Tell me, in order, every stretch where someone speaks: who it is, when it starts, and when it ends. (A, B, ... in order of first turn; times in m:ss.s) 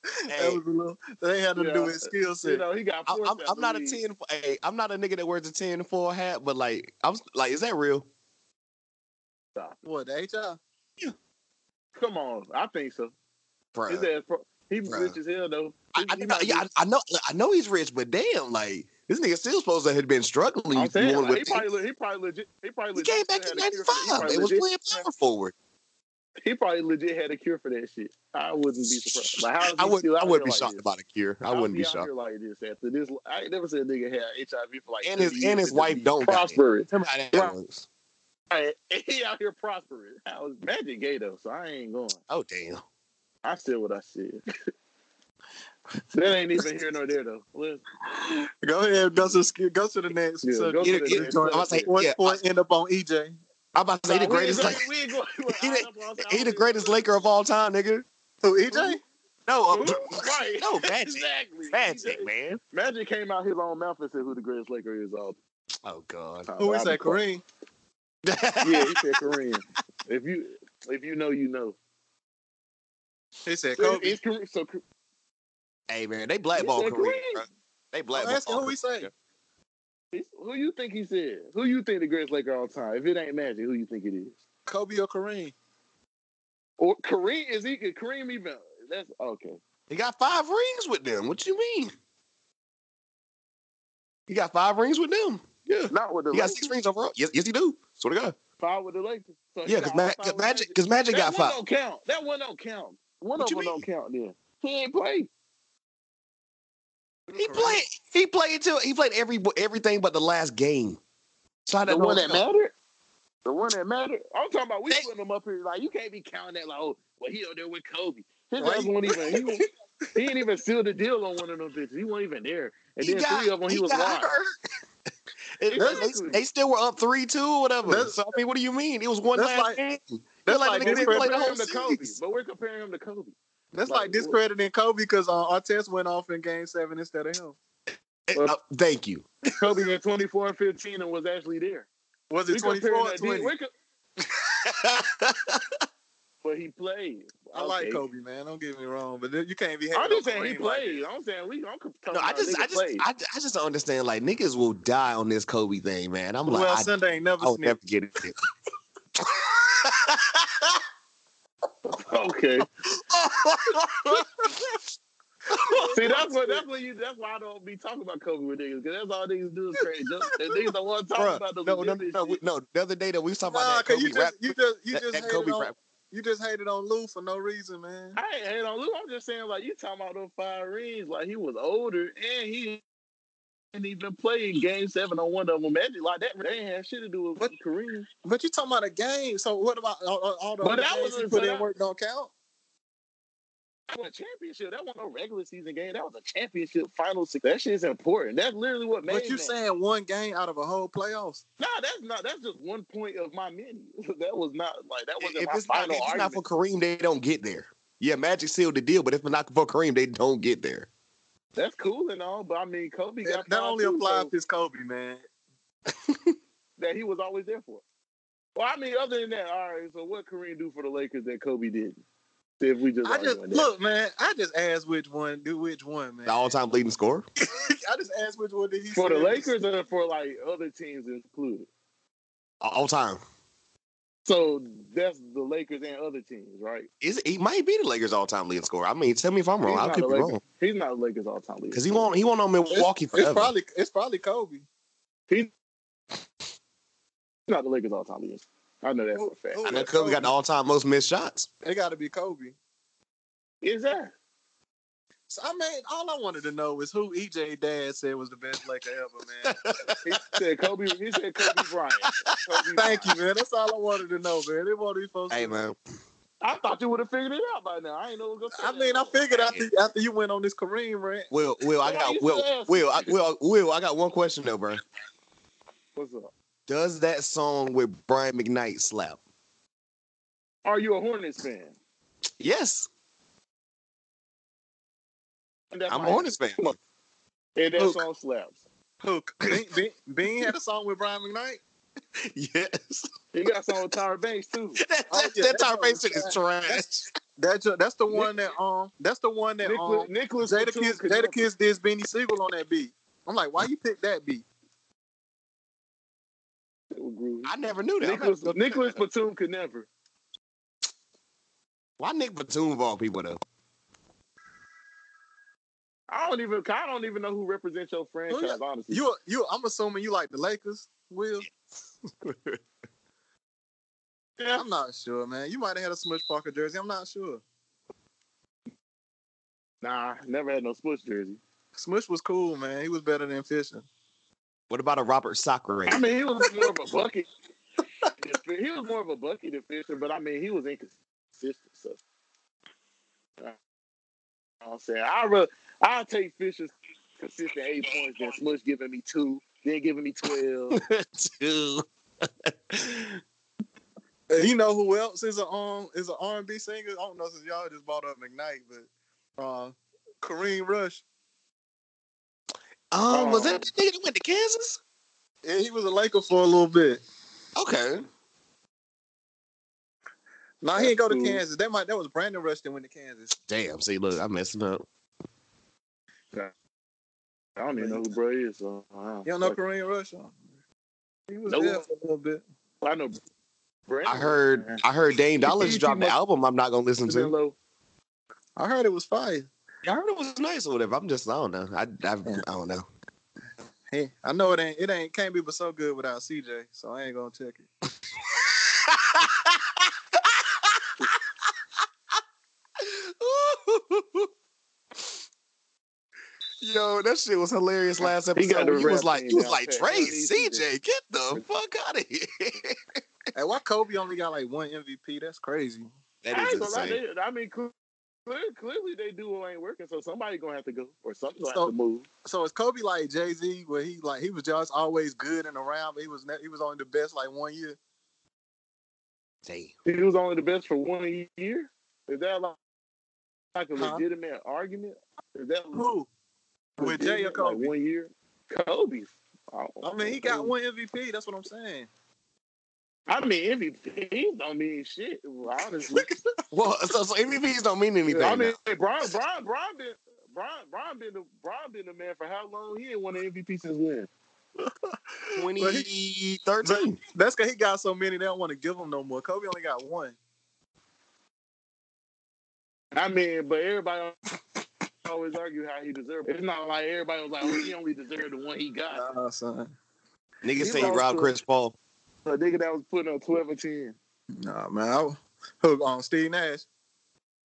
0:00.3-0:00.6 A
0:00.3-0:02.6 B
0:01.6-0:04.0 C
0:03.1-0:08.1 A
0:09.8-0:10.6 B
0:12.0-0:13.1 C
0:13.7-0:14.1 A
0:13.9-0:16.6 C
0:14.9-0:15.2 A
0:16.0-0:21.7 A
0:20.7-0:25.0 C
0:23.0-0:25.5 A
0:26.4-0:30.8 C
0:29.7-0:32.1 A
0:31.5-0:37.6 C
0:35.0-0:37.9 A
0:38.5-0:42.2 C
0:42.3-0:42.8 A
0:43.4-0:44.4 C
0:46.1-0:47.8 C
0:48.2-0:53.4 B
0:50.4-0:51.9 C
0:50.8-0:52.4 A
0:53.8-0:54.8 A
0:54.1-0:57.0 C
0:55.5-0:58.1 A
0:58.4-0:59.0 B
0:59.5-1:02.6 A
0:59.7-1:05.4 C
1:05.8-1:06.5 A
1:06.5-1:07.2 C
1:06.6-1:07.4 B
1:08.2-1:09.2 A
1:08.6-1:11.8 C
1:13.5-1:14.2 B
1:13.8-1:14.8 C
1:15.9-1:19.1 A
1:16.6-1:17.4 C
1:18.1-1:19.1 B
1:20.1-1:24.4 C
1:24.7-1:25.5 B
1:26.8-1:29.6 C
1:29.9-1:31.9 A
1:34.3-1:35.4 A
1:35.7-1:36.7 C
1:36.3-1:38.4 A
1:38.6-1:45.3 C
1:39.6-1:41.6 A
1:43.4-1:43.9 A
1:47.3-1:47.8 B
1:47.4-1:51.0 A
1:51.7-1:52.4 A
1:51.9-1:52.7 C
1:53.4-2:04.3 C
1:58.6-1:59.4 B
2:03.0-2:04.5 A
2:05.6-2:12.1 A
2:05.7-2:06.4 C
2:05.8-2:06.1 B
2:07.8-2:08.3 B
2:09.3-2:09.8 B
2:10.5-2:11.4 B
2:10.8-2:13.4 C
2:13.7-2:17.6 B
2:13.9-2:14.4 C
2:18.3-2:19.3 A
2:19.6-2:21.9 C
2:22.3-2:23.5 B
2:22.5-2:23.7 C
2:24.4-2:25.6 A
2:26.4-2:28.1 C
2:27.5-2:31.0 B
2:29.9-2:33.0 C
2:32.1-2:38.4 A
2:36.5-2:37.8 B
2:39.2-2:40.8 A
2:41.8-2:42.7 C
2:42.9-2:44.3 A
2:45.5-2:46.0 A
2:45.5-2:46.6 B
2:45.9-2:52.4 C
2:51.2-2:55.8 A
2:53.5-2:58.2 B
2:58.2-3:02.8 C
3:03.7-3:08.1 C
3:08.2-3:12.3 B
3:10.6-3:11.6 C
3:13.9-3:19.6 C
3:19.0-3:21.4 B
3:21.6-3:26.4 C
3:25.2-3:30.9 A
3:31.6-3:34.3 C
3:33.2-3:35.2 B
3:36.8-3:37.8 C
3:38.6-3:42.0 C
3:42.6-3:43.7 C
3:43.0-3:46.5 B
3:46.3-3:47.3 A
3:47.5-3:49.5 B
3:48.9-3:51.7 C
3:52.6-3:53.2 A
3:54.2-3:56.9 C
3:57.0-4:00.4 A
3:59.6-4:02.1 C
4:01.7-4:03.5 A
4:02.7-4:04.7 B
4:07.5-4:09.7 C
4:09.1-4:10.3 B
4:09.7-4:11.5 A
4:11.6-4:12.6 B
4:13.6-4:14.1 C
4:15.3-4:19.6 B
4:19.5-4:20.2 A
4:20.0-4:23.2 C
4:21.4-4:23.0 A
4:22.8-4:25.6 B
4:25.3-4:25.8 A
4:26.4-4:29.5 C
4:28.5-4:31.3 B
4:29.4-4:29.7 A
4:31.3-4:34.8 A
4:31.8-4:33.1 C
4:36.0-4:36.3 C
4:36.7-4:39.2 A
4:40.6-4:41.8 C
4:42.4-4:42.9 A
4:45.7-4:46.8 C
4:45.9-4:46.8 A
4:47.6-4:48.6 C
4:47.8-4:48.0 B
4:49.0-4:51.6 B
4:52.3-4:53.1 A
4:53.3-4:54.8 C
4:54.8-4:57.1 A
4:55.1-5:04.5 B
4:58.1-4:58.3 C
4:59.6-5:01.5 C
5:06.9-5:07.5 C
5:07.4-5:09.0 A
5:08.0-5:09.9 C
5:12.0-5:13.4 A
5:16.1-5:19.0 C
5:18.3-5:21.5 B
5:22.2-5:22.6 A
5:24.4-5:24.6 C
5:24.6-5:27.4 B
5:29.8-5:31.4 C
5:31.8-5:33.9 B
5:34.7-5:36.0 A
5:35.9-5:37.3 C
5:38.2-5:42.0 C
5:44.6-5:50.8 C
5:50.7-5:53.2 A
5:54.3-6:01.0 B
6:02.9-6:04.8 A
6:03.1-6:03.7 C
6:05.4-6:07.0 B
6:07.6-6:08.0 A
6:10.6-6:13.4 B
6:10.7-6:11.4 C
6:13.5-6:14.9 A
6:17.6-6:19.6 C
6:17.8-6:18.2 B
6:19.2-6:20.4 B
6:21.3-6:22.4 B
6:21.5-6:21.8 C
6:22.8-6:23.2 C
6:23.9-6:24.8 C
6:24.1-6:27.4 A
6:25.4-6:26.2 C
6:27.1-6:27.6 C
6:28.6-6:29.5 B
6:29.8-6:32.9 A
6:33.9-6:37.7 B
6:38.4-6:40.9 A
6:42.8-6:44.3 A
6:46.6-6:52.8 A
6:48.4-6:50.6 C
6:53.4-6:55.9 B
6:56.2-6:57.0 A
6:56.3-6:57.7 C
6:58.3-7:02.1 C
7:02.2-7:07.8 B
7:09.4-7:09.7 A
7:09.9-7:12.6 C
7:13.6-7:15.9 C
7:13.8-7:14.0 B
7:15.7-7:16.1 B
7:16.8-7:20.5 C
7:16.8-7:17.7 B
7:19.8-7:21.9 B
7:23.1-7:26.1 C
7:26.5-7:28.6 A
7:28.1-7:34.1 C
7:35.3-7:35.9 B
7:35.3-7:37.0 A
7:36.6-7:40.2 B
7:42.9-7:44.2 C
7:45.0-7:49.0 C
7:48.9-7:49.7 B
7:50.4-7:51.8 A
7:50.6-7:51.3 C
7:52.2-7:54.0 C
7:54.4-7:56.7 B